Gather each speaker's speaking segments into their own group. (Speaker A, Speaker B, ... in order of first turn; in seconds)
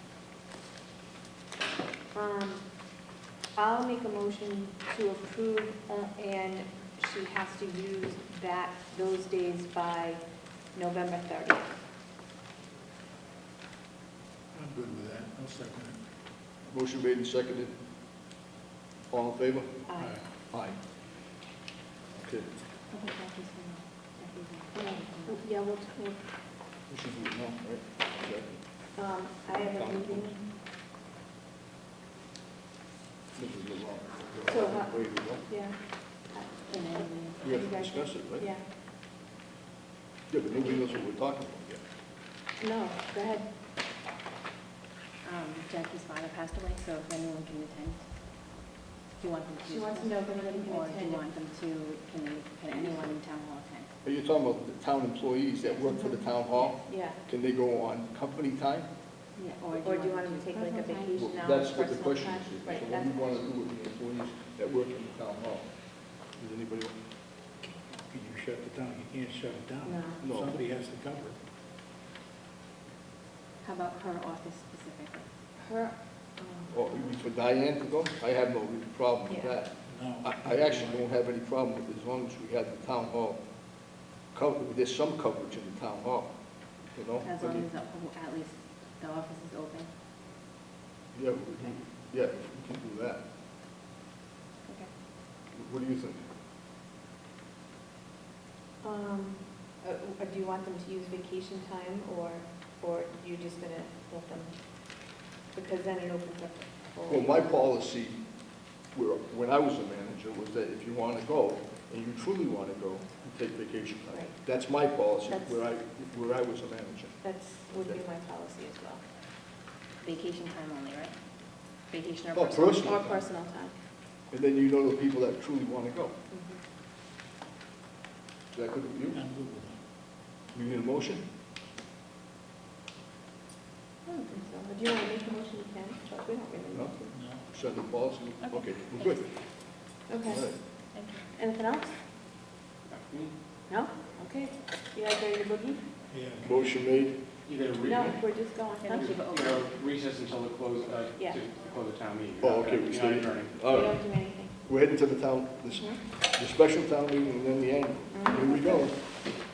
Speaker A: 2.1-3.0, 3.5-11.8, 19.9-20.2, 24.7-26.2, 29.0-30.4, 34.5-38.6, 42.6-43.5, 49.6-51.2, 52.7-53.1, 55.8-56.2, 56.8-57.2, 59.7-63.5, 69.8-70.2, 75.6-77.2, 79.3-79.6, 98.8-107.5, 114.1-114.4, 115.3-115.6, 117.2-119.0, 122.7-123.7, 126.3-126.6, 134.1-137.1, 140.1-140.5, 141.3-142.0, 143.7-145.8, 147.9-149.1, 153.7-154.6, 155.7-156.0, 158.1-158.9
Speaker B: 14.5-16.0, 68.0-71.4, 79.9-81.0, 129.1-129.8, 137.1-137.5, 146.1-146.7
Speaker C: 16.7-17.7, 19.1-19.8, 20.4-20.8, 22.2-22.5, 26.9-28.6, 29.6-30.3, 33.4-35.5, 37.4-38.5, 40.3-41.8, 54.0-58.9, 61.1-65.7, 66.4-67.0, 70.2-70.6, 76.7-83.4, 84.3-86.3, 86.8-87.7, 91.1-93.2, 95.5-96.2, 107.1-108.3, 108.9-117.2, 122.3-123.3, 124.3-126.2, 128.5-129.2, 130.5-131.2, 136.7-139.2, 140.3-140.6, 146.4-147.2, 152.4-159.0
Speaker D: 22.9-25.4, 36.7-37.4, 45.2-48.7, 49.2-53.9, 59.4-61.1, 73.6-75.3, 87.2-89.9, 94.7-94.9, 120.0-121.2, 121.9-122.8, 140.9-141.2, 148.6-149.6
Speaker E: 142.9-143.3, 147.4-153.6